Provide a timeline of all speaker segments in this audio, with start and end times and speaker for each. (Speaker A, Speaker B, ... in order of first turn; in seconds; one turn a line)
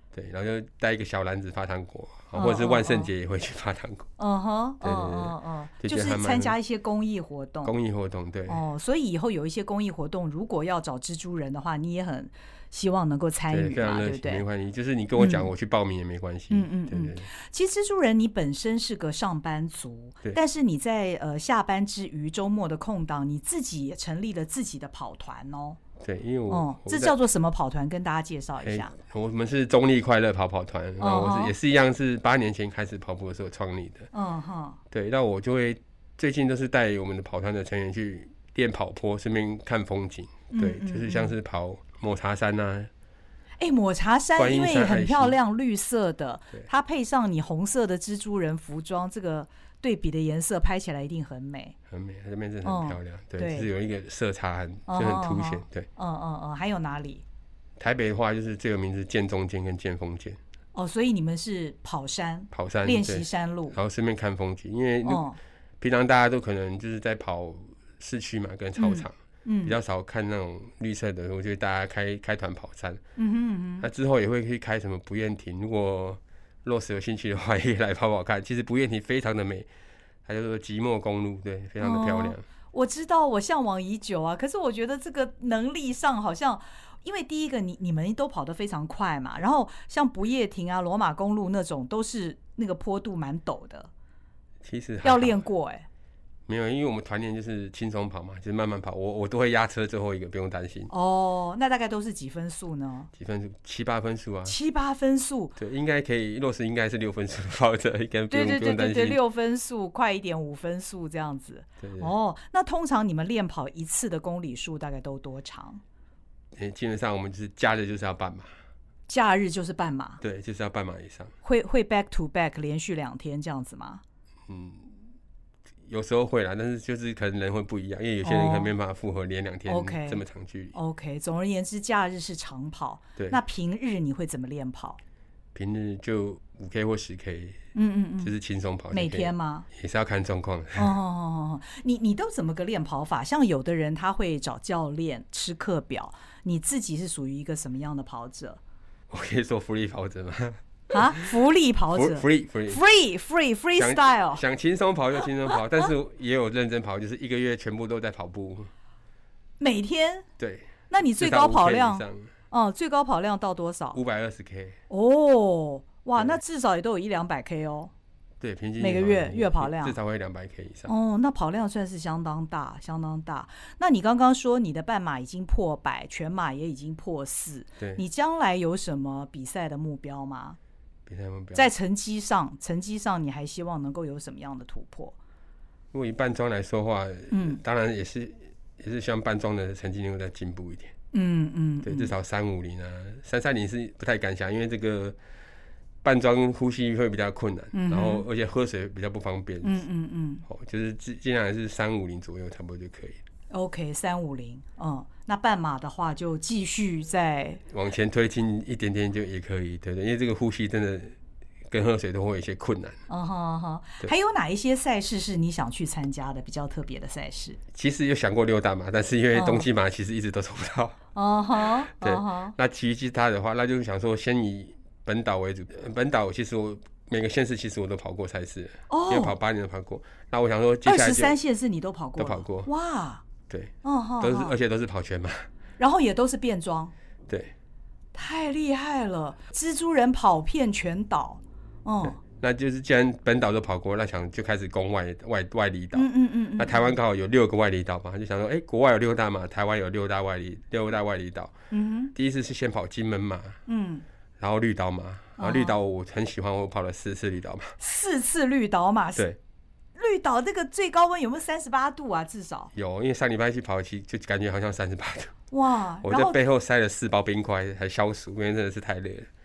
Speaker A: 0.1-4.1
Speaker B: 2.3-3.1
Speaker B: 4.2-7.7
Speaker A: 4.8-6.5
Speaker A: 7.6-8.6
Speaker B: 8.5-14.4
Speaker A: 13.5-17.3
Speaker B: 15.2-15.5
Speaker B: 16.5-25.8
Speaker A: 26.0-27.1
Speaker B: 26.5-28.9
Speaker A: 28.6-34.1
Speaker B: 31.0-31.5
Speaker B: 34.1-34.8
Speaker A: 34.9-42.9
Speaker B: 40.5-41.3
Speaker B: 43.6-51.8
Speaker A: 44.4-45.4
Speaker A: 51.9-55.9
Speaker B: 52.6-53.7
Speaker B: 54.9-57.2
Speaker A: 57.8-60.4
Speaker B: 60.7-63.8
Speaker A: 62.5-65.2
Speaker B: 65.0-65.4
Speaker A: 65.8-73.0
Speaker B: 68.8-69.7
Speaker B: 73.2-73.9
Speaker A: 73.8-79.7
Speaker A: 80.2-82.4
Speaker B: 81.8-93.9
Speaker A: 94.6-95.4
Speaker B: 95.0-95.9
Speaker A: 96.5-100.9
Speaker B: 100.9-103.1
Speaker A: 103.1-104.5
Speaker B: 104.4-105.5
Speaker A: 105.5-109.2
Speaker B: 108.3-115.8
Speaker A: 111.8-112.1
Speaker A: 116.5-118.5
Speaker B: 119.1-120.2
Speaker A: 120.2-121.3
Speaker B: 121.4-124.0
Speaker A: 124.5-124.9
Speaker A: 125.8-130.7
Speaker B: 128.2-128.7
Speaker B: 129.7-135.0
Speaker A: 135.5-137.6
Speaker B: 137.7-138.3
Speaker A: 138.2-140.9
Speaker B: 138.9-139.7
Speaker B: 140.8-148.6
Speaker A: 149.1-151.3
Speaker B: 150.9-154.4
Speaker A: 151.9-152.8
Speaker A: 153.8-158.7
Speaker B: 159.6-160.3
Speaker A: 160.4-162.3
Speaker B: 160.9-164.0
Speaker A: 163.9-164.8
Speaker B: 164.9-167.9
Speaker A: 168.4-170.9
Speaker B: 168.8-169.9
Speaker B: 170.9-180.6
Speaker A: 181.1-181.7
Speaker B: 181.5-185.1
Speaker A: 185.9-190.9
Speaker B: 187.3-187.6
Speaker B: 191.1-192.1
Speaker A: 191.8-195.2
Speaker A: 196.0-199.8
Speaker B: 197.7-198.2
Speaker B: 199.6-200.4
Speaker A: 200.4-203.2
Speaker B: 203.5-207.6
Speaker A: 207.7-211.2
Speaker A: 211.7-213.0
Speaker B: 213.1-217.6
Speaker A: 217.7-221.0
Speaker B: 219.3-219.7
Speaker B: 221.1-222.5
Speaker A: 222.0-231.3
Speaker B: 228.9-229.3
Speaker B: 230.8-233.2
Speaker A: 232.2-232.7
Speaker A: 233.5-235.5
Speaker B: 233.8-234.5
Speaker B: 235.8-236.9
Speaker A: 237.3-237.5
Speaker B: 238.1-242.2
Speaker A: 242.0-251.5
Speaker B: 245.9-246.9
Speaker B: 251.7-252.1
Speaker A: 252.1-253.6
Speaker B: 253.7-254.0
Speaker A: 254.4-257.7
Speaker B: 255.4-255.7
Speaker B: 257.8-259.3
Speaker B: 259.9-262.7
Speaker A: 262.7-265.3
Speaker B: 265.5-266.4
Speaker A: 266.0-269.3